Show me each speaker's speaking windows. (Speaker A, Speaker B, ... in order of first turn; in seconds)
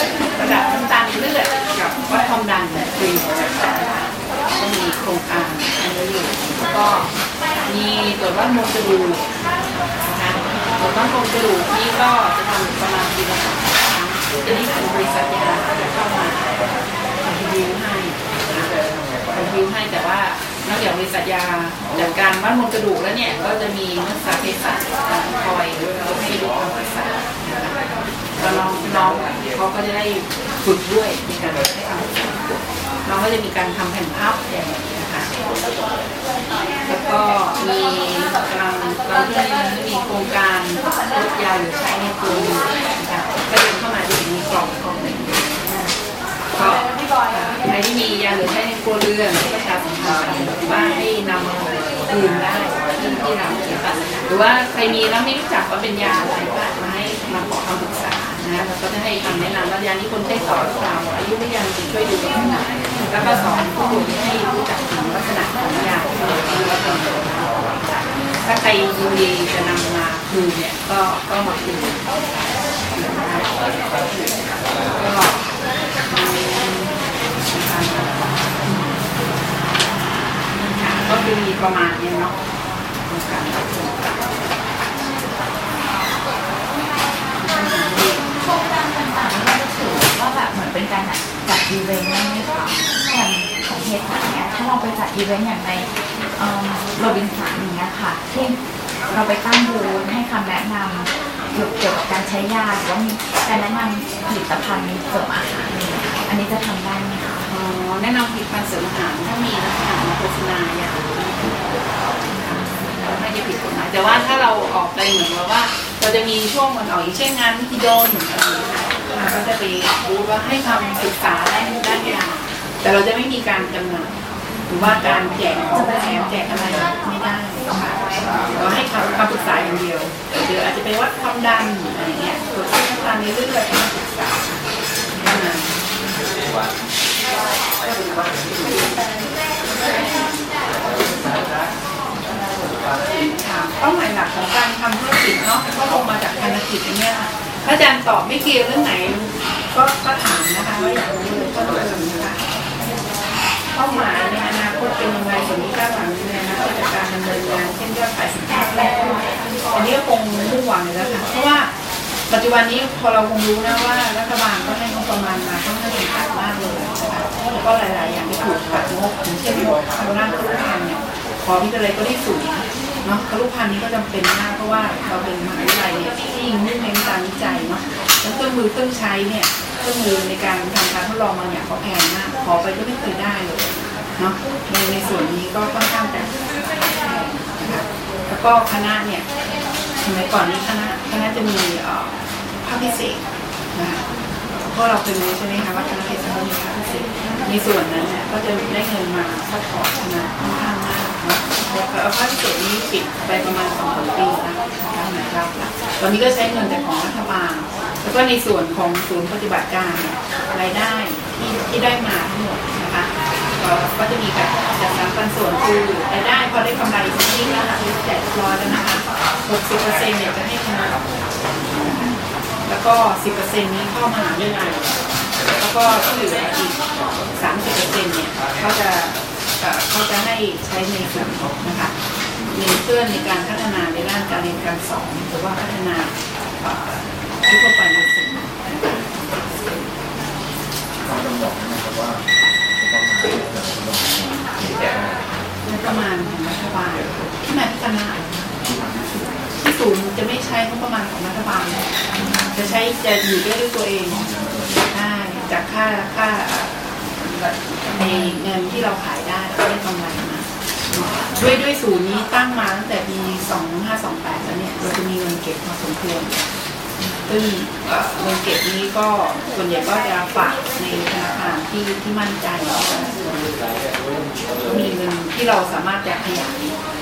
Speaker A: 0.3-7.1, 7.7-9.3, 10.0-16.6, 17.2-18.7, 19.3-27.8, 28.4-35.3, 36.9-45.9, 46.5-75.5, 76.1-79.0, 80.6-82.4, 83.0-84.2, 87.4-88.2, 105.7-106.0, 107.5-111.7, 112.3-124.1, 124.7-127.9, 128.5-134.6, 135.2-135.8, 143.3-152.4, 153.7-161.7, 162.3-189.3, 190.0-193.2, 193.7-221.0, 221.7-222.2, 222.7-224.9, 225.6-226.8, 227.4-231.9, 232.5-239.8, 245.6-248.5, 249.6-251.9, 252.5-254.3, 254.8-266.4, 267.3-273.2, 274.6-276.8
Speaker B: 88.2-98.6, 99.1-107.5, 125.7-126.9, 258.0-258.3
Speaker C: 241.0-242.2, 242.8-245.4, 248.6-249.4, 254.1-254.9